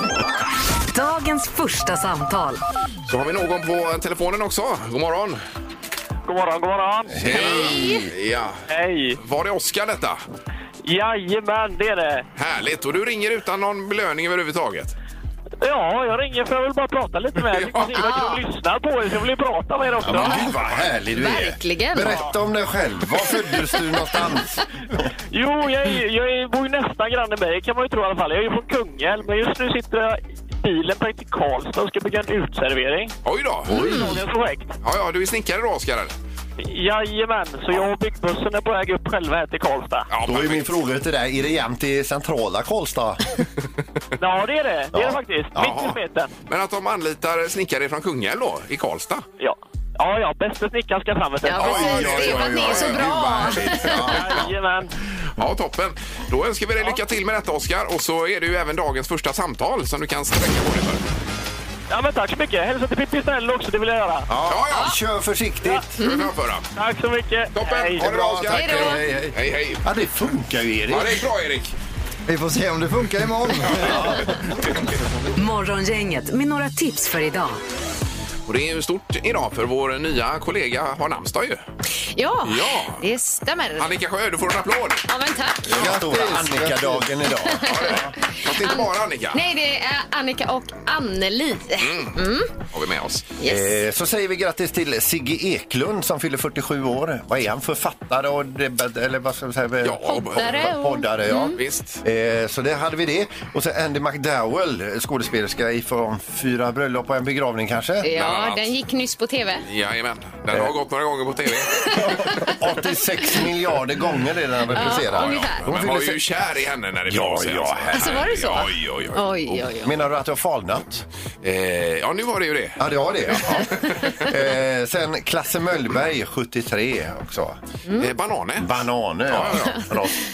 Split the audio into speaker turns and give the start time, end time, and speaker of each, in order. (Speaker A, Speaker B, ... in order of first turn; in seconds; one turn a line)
Speaker A: 0.9-2.6
Speaker B: 3.1-5.4
Speaker C: 6.2-7.2
Speaker D: 7.1-8.1
Speaker B: 7.2-8.6
Speaker E: 7.3-8.1
Speaker C: 8.7-9.2
Speaker B: 9.2-10.2
Speaker C: 10.8-12.2
Speaker B: 12.3-14.9
Speaker C: 15.6-20.4
Speaker B: 17.6-17.9
Speaker E: 17.9-18.4
Speaker D: 20.0-24.7
Speaker E: 20.2-20.5
Speaker E: 21.1-22.2
Speaker C: 25.3-33.1
Speaker B: 33.2-33.9
Speaker E: 33.7-34.1
Speaker C: 33.7-34.8
Speaker B: 34.8-36.1
Speaker C: 36.6-40.1
Speaker B: 40.1-40.7
Speaker D: 40.2-43.2
Speaker C: 44.2-46.3
Speaker D: 44.9-45.8
Speaker B: 45.6-45.9
Speaker B: 46.5-49.3
Speaker C: 49.4-52.4
Speaker E: 51.4-54.2
Speaker D: 51.6-54.5
Speaker B: 51.6-53.2
Speaker C: 54.0-54.9
Speaker B: 55.4-61.0
Speaker C: 61.9-64.3
Speaker D: 64.3-65.9
Speaker B: 64.4-64.9
Speaker B: 66.0-66.7
Speaker E: 66.0-66.3
Speaker C: 66.7-68.0
Speaker B: 67.5-69.8
Speaker D: 68.0-71.2
Speaker E: 68.5-69.0
Speaker B: 70.9-71.7
Speaker F: 72.3-74.3
Speaker D: 73.8-74.3
Speaker A: 75.3-77.6
Speaker B: 78.5-81.6
Speaker E: 82.1-83.9
Speaker B: 82.4-83.0
Speaker B: 83.8-85.0
Speaker E: 85.1-85.7
Speaker D: 85.7-88.1
Speaker F: 85.8-87.0
Speaker E: 87.5-88.0
Speaker B: 87.6-89.4
Speaker E: 88.5-92.5
Speaker B: 91.8-93.3
Speaker E: 93.4-93.8
Speaker D: 93.4-108.1
Speaker B: 99.8-100.7
Speaker E: 100.0-101.6
Speaker B: 101.5-102.0
Speaker E: 108.0-109.6
Speaker B: 108.1-108.7
Speaker B: 109.7-112.1
Speaker E: 111.8-112.5
Speaker D: 111.9-116.2
Speaker E: 114.7-115.6
Speaker B: 114.8-119.7
Speaker D: 117.1-118.2
Speaker E: 117.9-119.9
Speaker D: 119.8-121.0
Speaker B: 121.4-124.2
Speaker D: 122.8-127.6
Speaker B: 127.9-130.1
Speaker D: 128.6-130.2